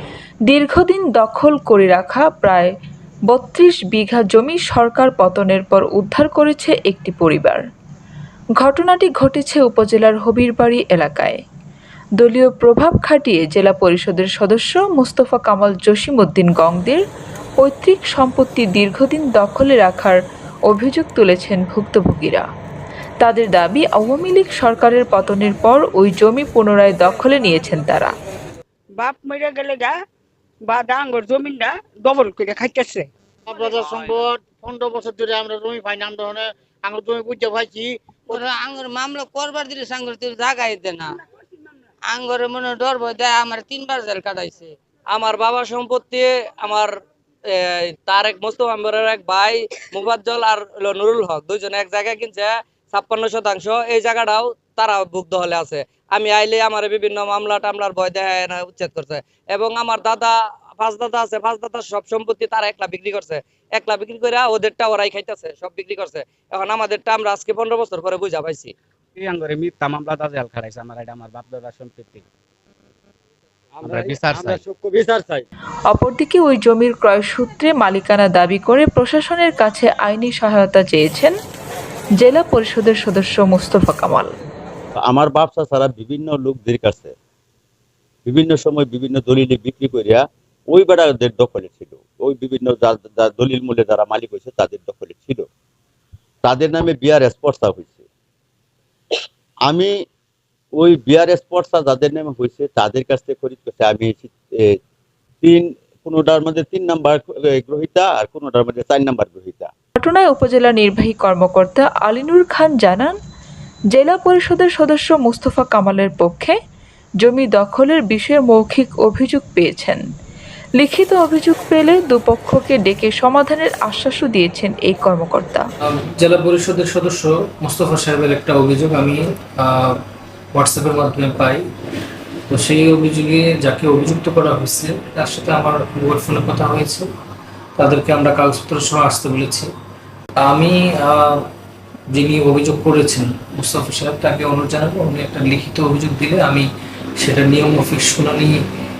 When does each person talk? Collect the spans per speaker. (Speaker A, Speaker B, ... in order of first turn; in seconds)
Speaker A: 0.5-2.7, 3.3-7.6, 8.6-11.4, 12.2-17.0, 17.6-22.4, 23.2-28.1, 75.9-81.3, 82.2-84.3, 110.0-113.2, 113.9-116.6, 117.2-120.0, 120.8-125.6
Speaker B: 29.0-30.0, 30.6-33.1
Speaker C: 33.5-38.4
Speaker D: 38.4-41.1, 42.1-44.7
Speaker E: 45.1-46.9, 47.5-68.7
Speaker F: 69.2-72.2, 73.8-74.6
Speaker G: 73.8-75.5, 85.0-87.1, 88.2-95.4, 96.4-98.0, 99.7-99.9, 100.8-104.8, 105.4-109.7
Speaker H: 125.8-130.0, 130.5-131.6, 132.5-137.1, 137.8-139.7, 140.4-141.4, 142.1-146.7, 147.2-148.6